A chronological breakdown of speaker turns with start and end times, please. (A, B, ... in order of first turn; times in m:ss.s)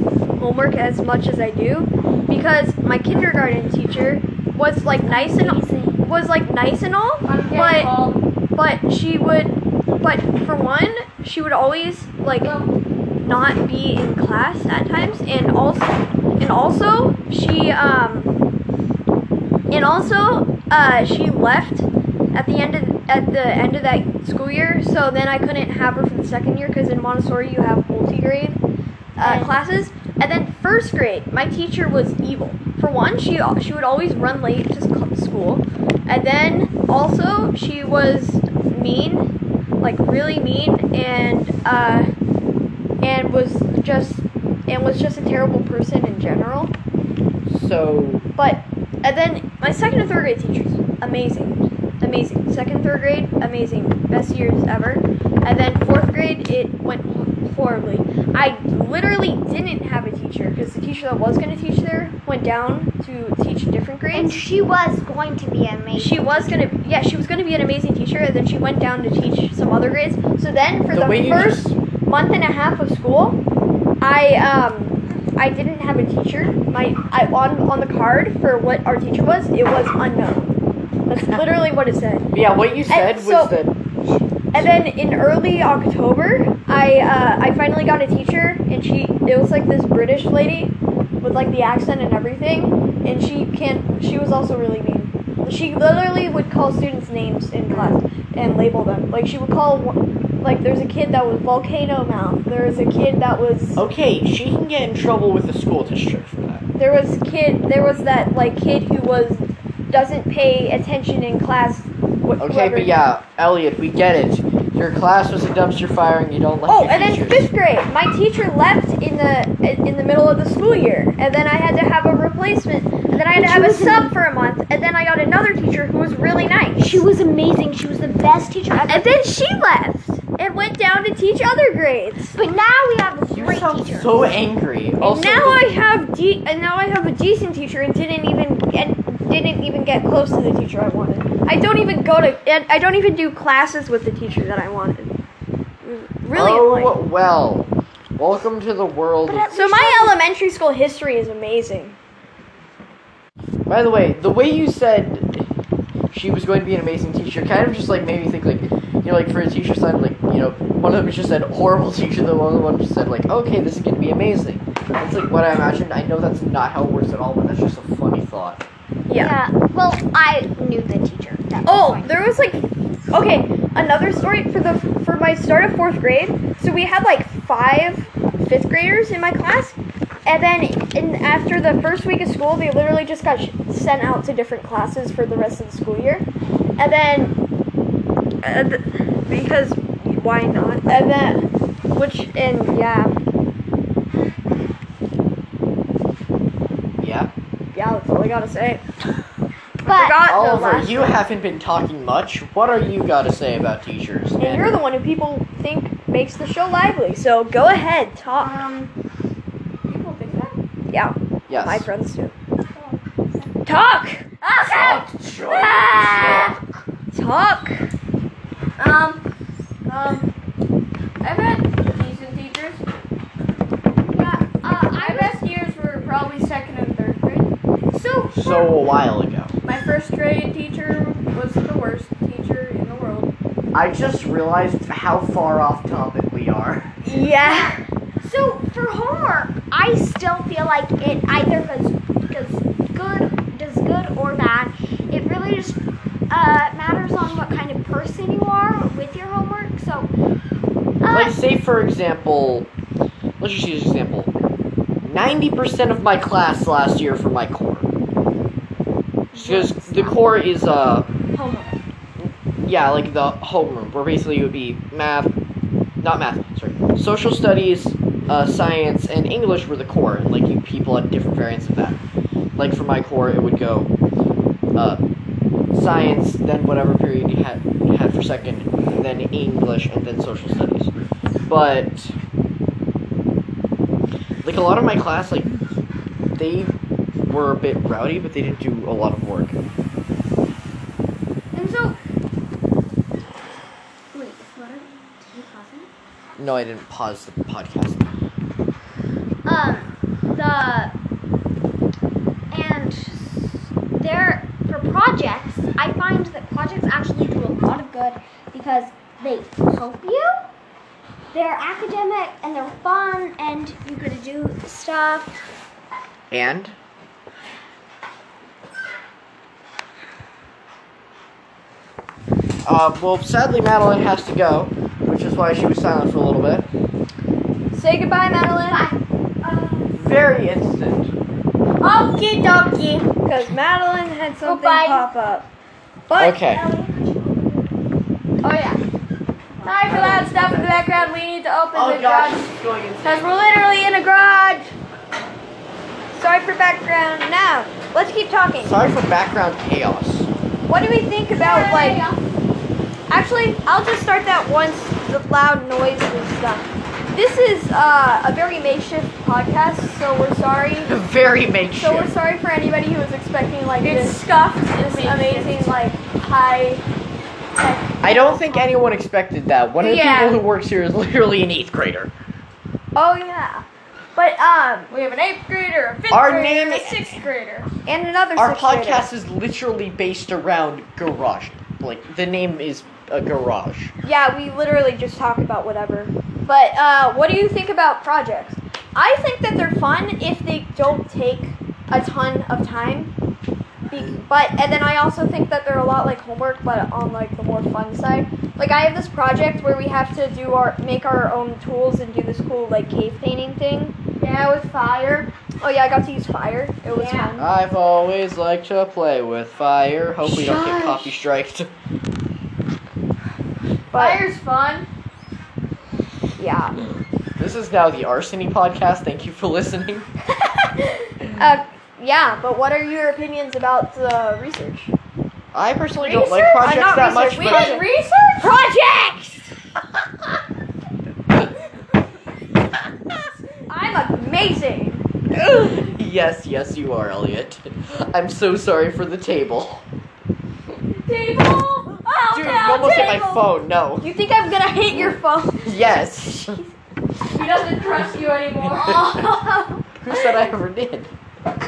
0:00.4-0:08.0 A
0:05.0-0:06.0 B
0:07.2-0:08.2 C
0:08.6-0:12.5 A
0:12.4-0:12.7 C
0:13.2-0:18.3 A
0:19.7-0:28.6 A
0:29.2-0:39.3 A
0:29.2-0:29.5 B
0:39.8-0:42.1 A
0:43.0-0:46.7 A
0:47.5-0:48.2 D
0:48.4-1:04.4 A
1:04.1-1:06.3 B
1:05.9-1:13.4 A
1:10.9-1:11.8 D
1:14.0-1:20.5 A
1:21.1-1:22.3 A
1:22.3-1:23.8 D
1:22.9-1:23.6 A
1:24.5-1:43.8 A
1:43.8-1:46.6 D
1:46.8-1:52.9 A
1:52.4-1:57.5 D
1:56.7-2:07.0 A
2:03.2-2:04.1 B
2:06.8-2:09.1 B
2:08.9-2:12.4 A
2:12.3-2:14.3 B
2:13.3-2:15.6 D
2:15.0-2:25.1 A
2:25.8-2:27.0 A
2:26.3-2:29.5 D
2:29.2-2:30.2 B
2:29.5-2:32.0 A
2:33.7-2:35.5 D
2:36.1-2:48.6 D
2:49.1-2:49.3 A
2:49.2-2:52.1 B
2:51.6-3:06.2 A
3:06.8-3:07.3 A
3:08.4-3:13.1 A
3:17.0-3:17.3 D
3:17.7-3:18.8 A
3:19.8-3:20.2 B
3:19.8-3:21.2 A
3:20.2-3:24.7 D
3:24.4-3:28.6 A
3:28.3-3:28.9 C
3:29.8-3:30.6 C
3:30.9-3:32.3 A
3:31.5-3:31.9 D
3:32.7-3:33.5 C
3:33.6-3:34.2 A
3:34.4-3:36.5 C
3:34.6-3:36.6 D
3:37.1-3:37.8 A
3:38.8-3:39.2 C
3:39.9-3:40.3 C
3:41.2-3:42.8 C
3:44.1-3:45.4 B
3:45.0-3:47.5 C
3:47.9-3:48.7 B
3:48.3-3:49.5 D
3:49.6-3:53.3 C
3:53.7-3:56.9 D
3:57.0-3:57.8 A
3:57.4-4:05.8 B
4:06.3-4:10.1 B
4:11.0-4:11.4 B
4:11.1-4:12.7 D
4:13.4-4:14.3 D
4:15.0-4:17.9 D
4:19.3-4:20.3 B
4:19.4-4:21.1 D
4:21.4-4:21.7 B
4:22.2-4:25.3 D
4:26.0-4:32.0 D
4:32.6-4:33.9 D
4:34.8-4:35.0 D
4:35.7-4:40.9 D
4:41.5-4:42.2 D
4:44.4-4:45.5 D
4:46.4-4:46.7 D
4:47.3-4:49.6 D
4:51.5-4:52.0 B
4:54.1-4:55.9 B
4:56.4-4:58.1 D
4:59.4-5:00.9 B
5:02.5-5:10.5 B
5:11.3-5:15.4 B
5:16.3-5:16.7 D
5:22.6-5:26.7 D
5:27.7-5:28.8 A
5:28.7-5:30.0 B
5:29.9-5:31.1 D
5:32.0-5:33.0 B
5:32.5-5:32.9 C
5:33.2-5:35.4 A
5:34.4-5:35.1 B
5:36.1-5:36.4 A
5:36.1-5:36.6 D
5:36.5-5:37.7 B
5:38.4-5:38.8 A
5:39.6-5:40.1 B
5:39.6-5:42.5 C
5:39.9-5:40.6 D
5:41.7-5:43.3 D
5:43.0-5:44.7 C
5:46.1-5:48.8 A
5:48.6-5:50.3 D
5:50.6-5:52.0 A
5:51.3-5:52.2 B
5:53.1-6:00.9 A
6:00.8-6:02.1 D
6:01.8-6:04.2 A
6:03.8-6:05.8 C
6:04.9-6:06.8 A
6:07.5-6:08.7 A
6:08.0-6:12.1 D
6:09.8-6:10.4 A
6:12.9-6:13.6 A
6:14.2-6:14.9 A
6:14.9-6:17.7 C
6:16.1-6:17.2 D
6:17.8-6:19.1 A
6:18.4-6:23.9 D
6:24.0-6:33.1 A
6:33.9-6:44.0 A
6:44.2-6:45.3 C
6:45.6-6:47.4 A
6:46.9-6:47.3 C
6:47.4-6:51.7 D
6:53.9-6:54.8 C
6:53.9-6:54.2 A
6:56.4-6:56.8 A
6:57.4-7:00.1 D
7:01.3-7:04.9 A
7:05.5-7:07.7 D
7:06.0-7:07.9 A
7:07.3-7:08.6 C
7:08.4-7:09.4 A
7:13.7-7:15.0 A
7:15.3-7:19.8 D
7:21.0-7:22.0 C
7:22.0-7:23.4 A
7:22.3-7:24.1 D
7:24.0-7:26.7 A
7:24.9-7:26.6 D
7:27.3-7:29.1 C
7:28.7-7:29.1 D
7:28.7-7:30.3 A
7:30.0-7:31.1 D